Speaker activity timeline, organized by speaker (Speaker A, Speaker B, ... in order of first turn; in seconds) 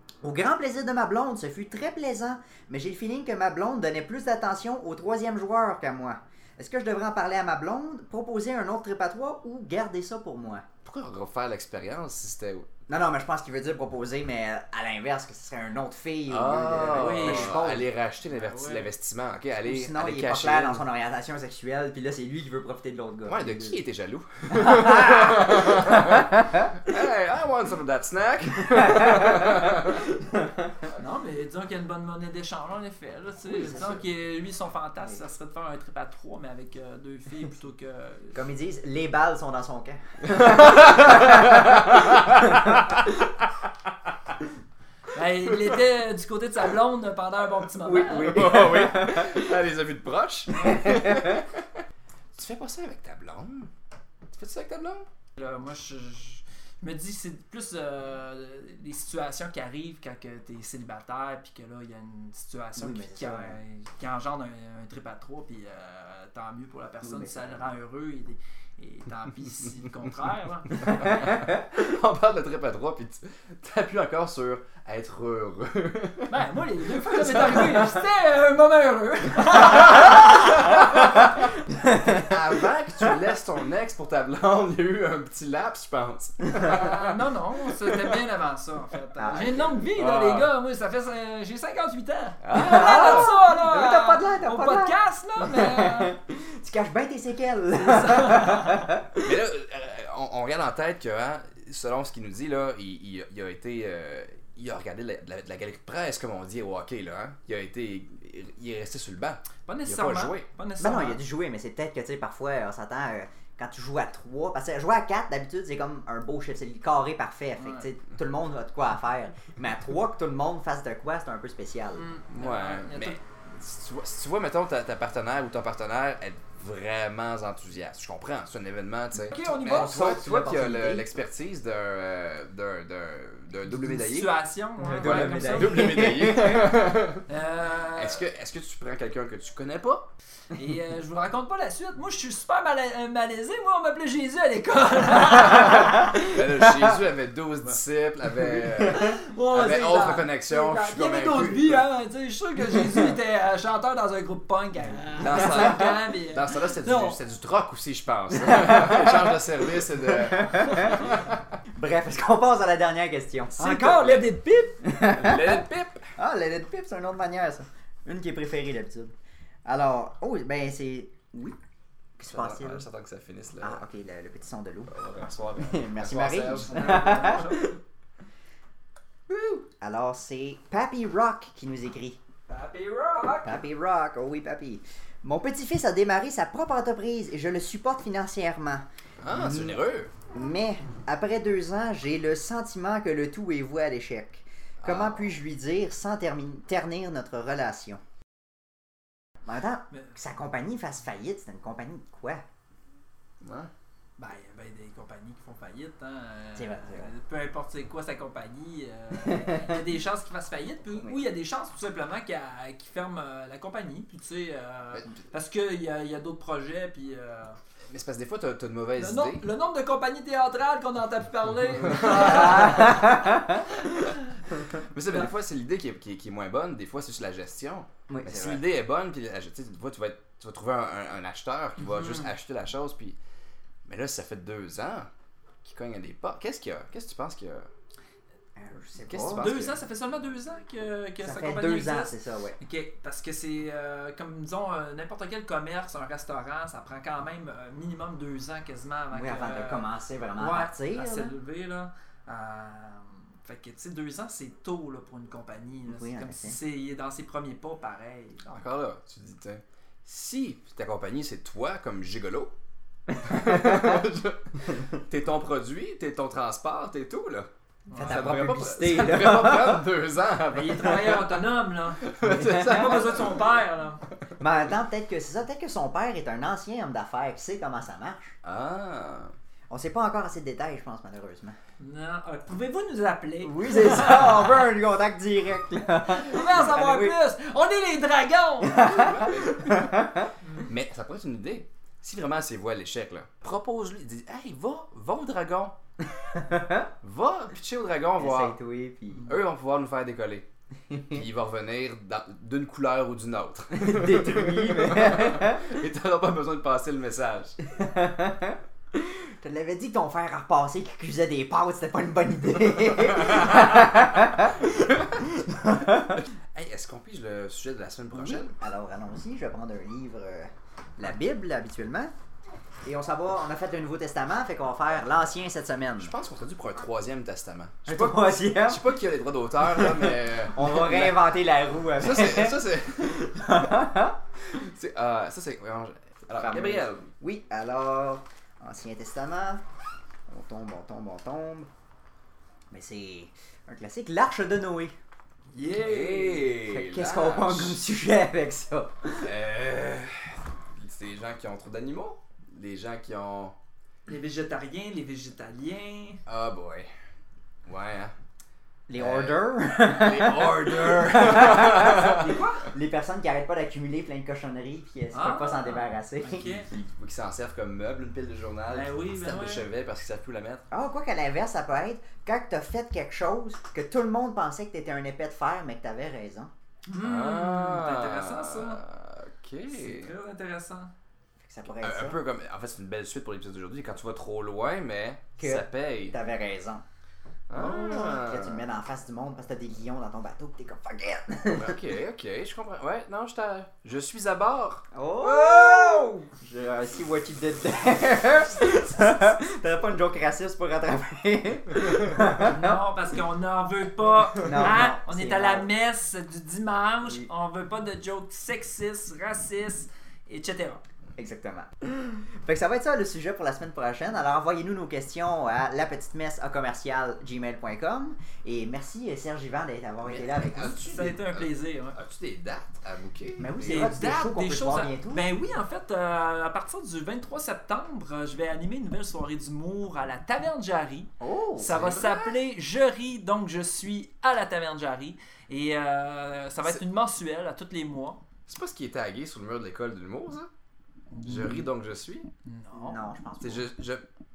Speaker A: 0.2-10.7, 12.9-17.9, 19.6-23.8, 24.5-26.0, 29.0-29.3, 33.5-34.0, 38.3-41.5, 47.8-49.5, 50.6-51.3, 62.8-63.6, 67.0-67.7, 81.7-82.3, 89.2-89.7, 92.5-99.3, 110.8-122.0, 129.5-131.1, 134.8-136.8, 158.5-159.2, 160.1-161.1, 161.7-164.1, 164.8-165.6, 166.2-169.1, 169.6-171.6, 172.2-172.8, 173.6-174.9, 175.6-177.7, 179.8-182.2, 183.4-189.8, 190.3-198.0, 199.4-202.4, 206.6-207.1, 209.2-209.7, 222.1-223.6, 228.1-228.6, 238.6-239.6, 241.2-242.6, 249.1-251.3, 255.9-256.6, 263.3-263.9, 267.9-269.8, 272.3-273.1, 274.4-278.3, 279.7-281.6, 283.4-287.1, 288.6-290.3, 296.2-296.9, 298.2-299.3, 300.9-301.2, 303.7-305.7, 307.6-316.2, 318.1-322.1, 322.8-326.1, 327.9-328.8, 329.7-334.2, 336.3-339.6, 340.3-341.7, 342.7-344.9, 346.6-349.3, 358.9-366.4, 370.7-376.5, 381.4-382.2, 385.4-386.8, 387.5-391.8, 394.9-402.8, 404.4-405.7, 411.2-420.8, 423.4-425.2, 431.2-431.8, 442.7-443.6
Speaker B: 10.8-12.7, 16.3-20.8, 23.2-30.1, 40.3-42.8, 48.1-51.6, 52.4-53.7, 54.3-55.0, 70.9-76.3, 77.0-77.9, 82.1-87.2, 89.9-90.5, 92.4-93.3, 99.2-110.5, 122.3-134.3, 134.9-137.2, 137.9-140.1, 146.0-151.8, 155.2-161.4, 163.9-164.2, 165.0-166.0, 172.2-173.8, 174.9-177.6, 179.3-179.6, 189.2-190.1, 194.8-195.3, 203.4-203.7, 217.9-219.5, 221.9-222.8, 224.8-233.2, 233.8-235.1, 235.6-237.7, 239.1-239.8, 258.4-262.5, 263.2-267.5, 268.0-271.4, 272.0-273.4, 278.4-279.3, 289.0-289.9, 290.6-295.8, 297.0-298.6, 299.2-300.4, 301.1-307.6, 316.1-318.5, 326.0-331.2, 331.9-333.3, 334.5-337.1, 345.8-347.8, 349.2-353.5, 356.3-356.9, 357.6-358.1, 358.9-362.3, 366.3-370.6, 377.0-380.1, 381.8-386.1, 387.5-388.6, 391.5-396.1, 420.0-423.9, 431.6-432.4, 438.5-440.5, 441.2-442.3, 443.4-444.0
Speaker C: 16.9-17.6, 18.3-18.9, 30.9-38.4, 45.1-48.4, 55.4-71.0, 76.3-80.8, 86.6-96.1, 97.7-98.9, 109.7-111.2, 117.6-117.9, 121.9-123.2, 129.3-130.0, 133.6-136.1, 137.3-138.2, 140.5-146.2, 148.9-157.2, 163.6-164.8, 176.7-177.7, 182.5-183.6, 204.2-217.6, 219.0-224.4, 231.9-232.3, 239.3-249.9, 250.4-258.6, 267.9-268.4, 270.5-274.0, 281.8-284.6, 286.0-289.1, 345.5-346.6, 354.1-356.2, 362.1-362.6, 365.1-366.7, 368.7-369.6, 376.9-378.8, 379.7-380.9, 402.4-410.8, 420.7-422.0, 423.6-438.2, 441.1-441.7, 442.4-443.1